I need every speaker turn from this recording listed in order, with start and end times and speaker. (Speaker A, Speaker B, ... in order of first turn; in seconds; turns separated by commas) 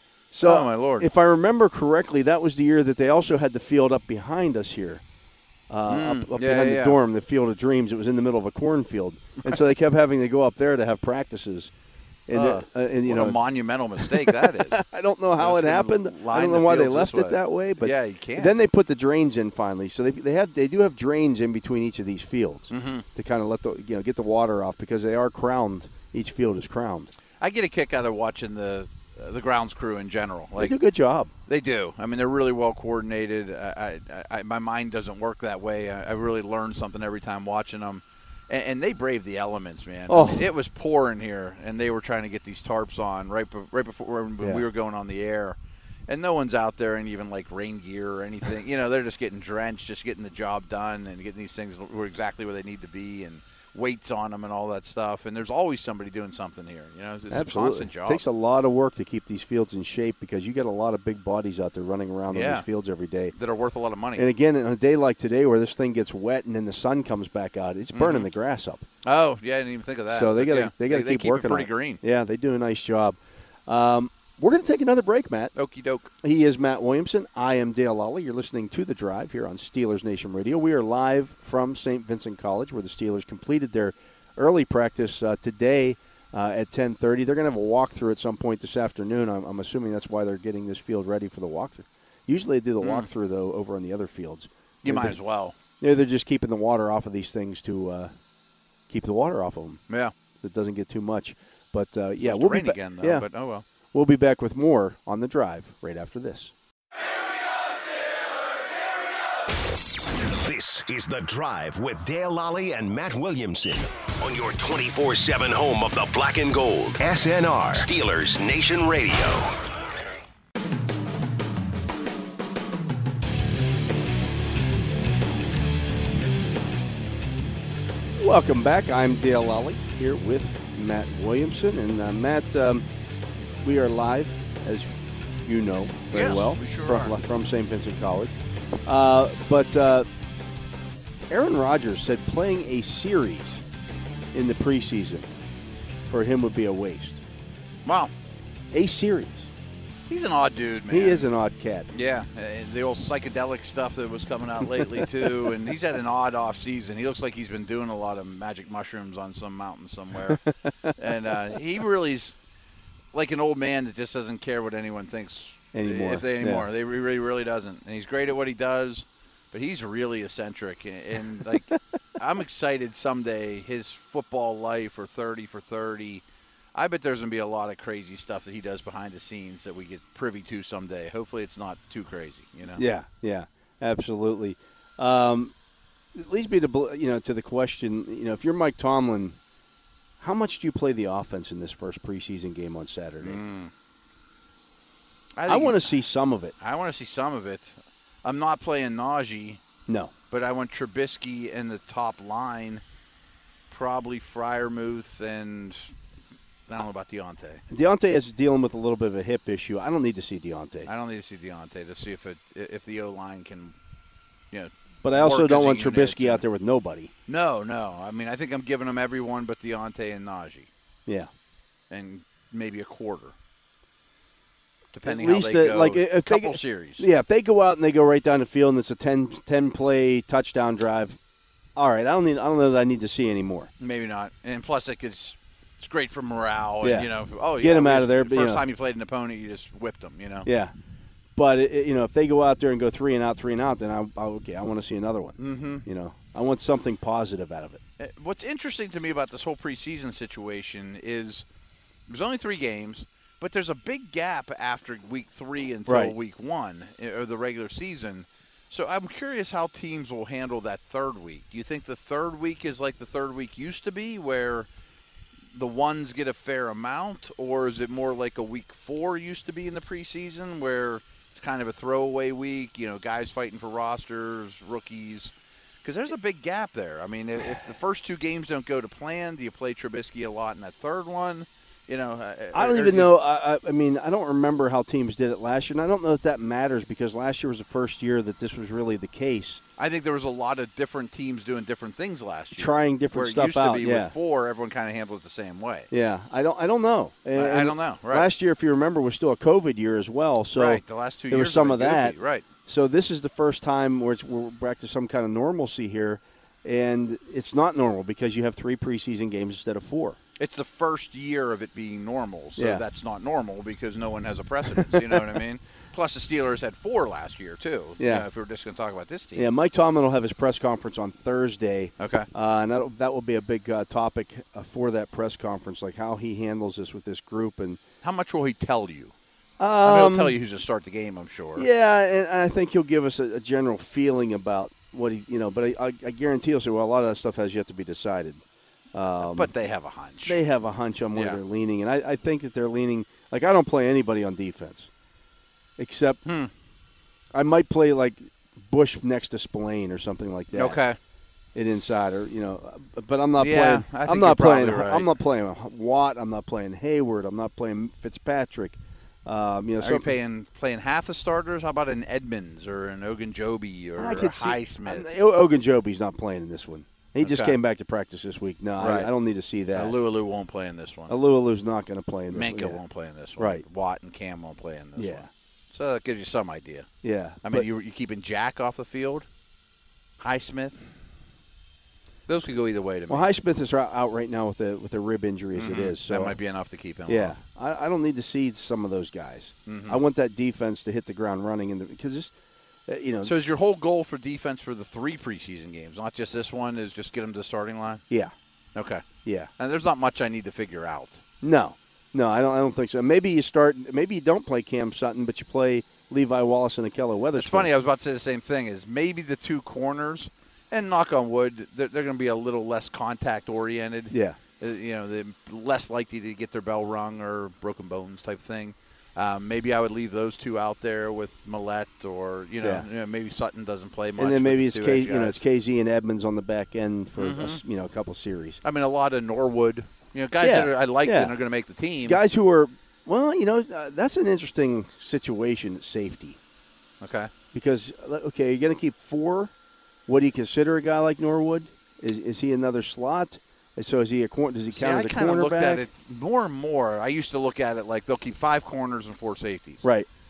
Speaker A: 0.3-5.0, Speaker B: 0.4-1.1, Speaker A: 5.7-11.7, Speaker B: 5.9-7.0, Speaker A: 12.3-13.4, Speaker B: 12.3-14.8, Speaker A: 14.0-27.1, Speaker B: 15.4-18.5, Speaker B: 22.7-23.1, Speaker B: 27.4-30.8, Speaker A: 30.6-31.3, Speaker B: 31.5-58.2, Speaker A: 40.1-40.5, Speaker A: 44.4-44.6, Speaker A: 57.3-63.3, Speaker B: 62.3-62.7, Speaker B: 63.3-64.3, Speaker A: 64.2-68.9, Speaker B: 67.9-68.3, Speaker B: 69.0-72.0, Speaker A: 70.1-75.5, Speaker B: 75.6-76.1, Speaker A: 76.2-95.2, Speaker B: 92.8-93.1, Speaker B: 94.8-95.6, Speaker A: 95.8-98.1, Speaker A: 98.9-99.8, Speaker A: 100.4-103.3, Speaker B: 102.2-103.7, Speaker A: 103.9-106.5, Speaker C: 110.3-119.6, Speaker A: 128.2-132.9, Speaker A: 133.6-134.9, Speaker A: 135.4-140.1, Speaker B: 136.1-137.1, Speaker A: 141.3-143.6, Speaker A: 144.3-145.3, Speaker A: 146.1-147.2, Speaker B: 147.8-148.1, Speaker A: 148.7-149.5, Speaker B: 150.1-151.2, Speaker A: 150.9-151.9, Speaker B: 151.9-160.4, Speaker B: 161.0-162.4, Speaker B: 163.1-176.2, Speaker A: 165.7-166.7, Speaker B: 176.8-182.8, Speaker A: 182.7-185.5, Speaker A: 186.1-189.4, Speaker A: 190.2-193.4, Speaker B: 193.2-193.7, Speaker B: 195.4-196.0, Speaker A: 195.5-196.5, Speaker B: 196.6-199.6, Speaker A: 199.9-200.1, Speaker B: 200.3-202.8, Speaker B: 203.7-205.9, Speaker B: 206.7-207.6, Speaker A: 207.7-210.9, Speaker B: 210.9-213.8, Speaker B: 214.5-216.4, Speaker A: 215.0-217.1, Speaker B: 217.3-220.7, Speaker B: 221.9-223.3, Speaker B: 224.9-227.1, Speaker A: 225.1-231.2, Speaker A: 231.8-233.7, Speaker B: 233.8-240.5, Speaker A: 236.8-238.6, Speaker A: 240.4-240.7, Speaker A: 241.4-247.8, Speaker B: 245.4-245.8, Speaker B: 248.0-251.4, Speaker B: 252.1-264.7, Speaker A: 255.9-256.1, Speaker B: 265.5-275.3, Speaker B: 275.8-283.1, Speaker A: 282.5-289.6, Speaker B: 289.8-295.9, Speaker A: 292.6-294.1, Speaker A: 295.9-302.1, Speaker B: 297.4-298.3, Speaker B: 300.5-302.5, Speaker A: 302.7-310.2, Speaker B: 310.4-319.5, Speaker A: 312.6-312.8, Speaker A: 314.8-315.2, Speaker A: 318.0-318.3, Speaker A: 319.4-327.8, Speaker B: 322.0-322.3, Speaker B: 328.0-329.1, Speaker A: 329.6-330.4, Speaker B: 329.8-331.7, Speaker A: 331.6-338.4, Speaker A: 338.9-339.5, Speaker B: 339.2-340.4, Speaker A: 340.2-344.9, Speaker B: 341.1-341.4, Speaker A: 345.8-346.2, Speaker B: 346.3-346.5, Speaker A: 347.3-350.8, Speaker B: 350.5-351.0, Speaker A: 351.6-360.1, Speaker B: 353.4-355.1, Speaker B: 359.8-365.1, Speaker A: 364.0-370.0, Speaker B: 367.2-367.6, Speaker B: 368.8-369.1, Speaker B: 369.8-371.1, Speaker A: 371.1-372.8, Speaker B: 372.3-376.9, Speaker A: 373.4-373.6, Speaker A: 375.0-375.3, Speaker A: 377.0-377.7, Speaker B: 377.4-379.3, Speaker B: 380.2-380.9, Speaker B: 382.3-383.3, Speaker A: 383.1-386.4, Speaker B: 385.6-387.4, Speaker A: 387.1-392.3, Speaker B: 389.7-390.0, Speaker A: 392.9-393.3, Speaker B: 393.2-398.0, Speaker B: 398.8-399.0, Speaker A: 399.2-399.5, Speaker B: 399.6-401.2, Speaker A: 401.4-407.7, Speaker B: 407.4-425.4, Speaker A: 414.1-414.4, Speaker A: 422.6-422.9, Speaker A: 424.2-428.6, Speaker B: 427.2-427.6, Speaker B: 428.6-432.2, Speaker A: 430.4-431.4, Speaker A: 432.0-436.4, Speaker B: 437.0-437.3, Speaker A: 437.5-439.5, Speaker A: 440.1-445.9, Speaker B: 444.7-449.8, Speaker A: 449.8-450.1